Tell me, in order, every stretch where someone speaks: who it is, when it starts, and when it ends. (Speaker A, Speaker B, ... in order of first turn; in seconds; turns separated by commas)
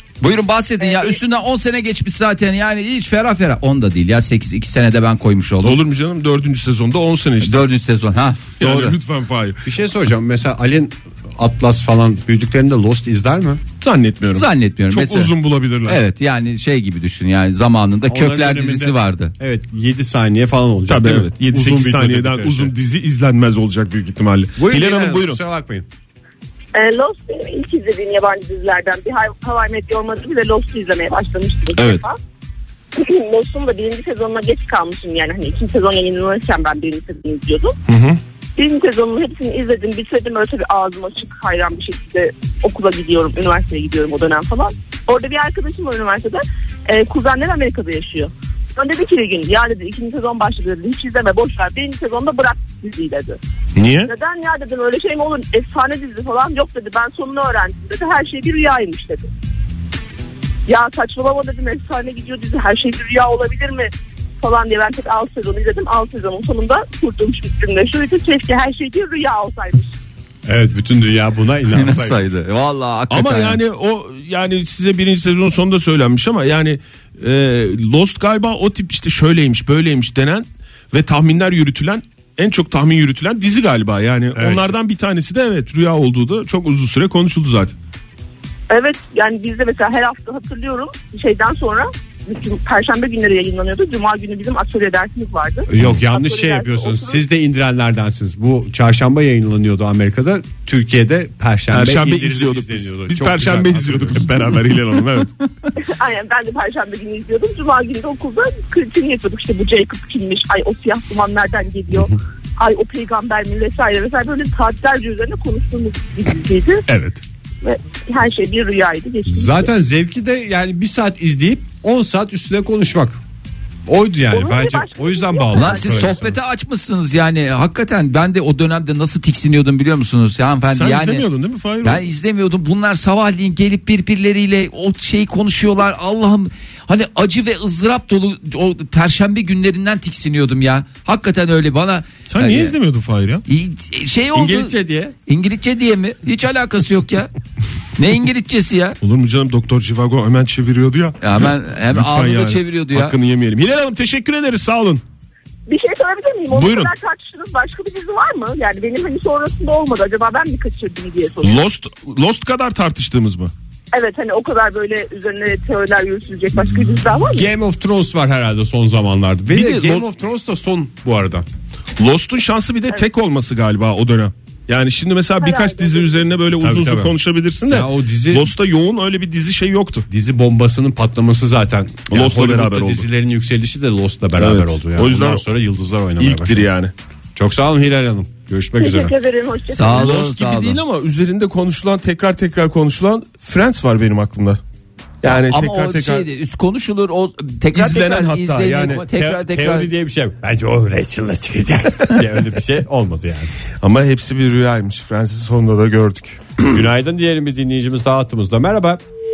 Speaker A: 0.2-5.8, Speaker B: 5.6-7.7, Speaker A: 7.4-8.9, Speaker B: 8.6-9.6, Speaker C: 9.7-13.6, Speaker B: 13.8-16.0, Speaker A: 14.3-19.3, Speaker C: 18.1-22.7, Speaker B: 20.9-25.4, Speaker C: 24.6-25.9, Speaker D: 26.7-32.2, Speaker B: 31.8-32.1, Speaker D: 33.0-37.8, Speaker B: 37.9-38.2, Speaker D: 38.6-53.4, Speaker B: 53.8-54.1, Speaker D: 54.1-59.3, Speaker D: 60.7-63.9, Speaker D: 64.4-69.9, Speaker C: 70.5-72.3, Speaker A: 71.7-73.6, Speaker B: 73.1-87.7, Speaker C: 84.3-84.7, Speaker D: 88.7-97.2, Speaker C: 95.7-104.3, Speaker B: 101.7-105.3, Speaker D: 105.8-116.8, Speaker B: 116.9-117.2, Speaker D: 117.6-119.7, Speaker C: 119.3-123.2, Speaker C: 123.9-126.4, Speaker D: 124.3-126.2, Speaker A: 125.5-131.2, Speaker B: 130.7-132.0, Speaker A: 131.8-142.8, Speaker B: 142.3-143.4, Speaker A: 143.5-147.3, Speaker B: 144.3-144.9, Speaker A: 148.0-149.0, Speaker B: 149.0-155.0, Speaker A: 151.2-153.2, Speaker D: 155.7-161.6, Speaker B: 156.5-156.9, Speaker B: 161.4-163.5, Speaker D: 163.9-167.5, Speaker C: 166.6-171.5, Speaker B: 169.5-170.1, Speaker B: 172.0-180.1, Speaker D: 175.4-176.1, Speaker C: 176.6-178.5, Speaker C: 180.1-186.7, Speaker B: 182.1-183.1, Speaker B: 184.4-185.4, Speaker B: 186.2-186.9, Speaker C: 187.4-189.1, Speaker D: 188.8-190.2, Speaker A: 189.7-190.8, Speaker B: 189.9-194.6, Speaker B: 195.2-196.2, Speaker A: 195.2-199.9, Speaker B: 197.7-199.0, Speaker C: 199.1-203.5, Speaker B: 203.8-206.6, Speaker C: 206.6-209.0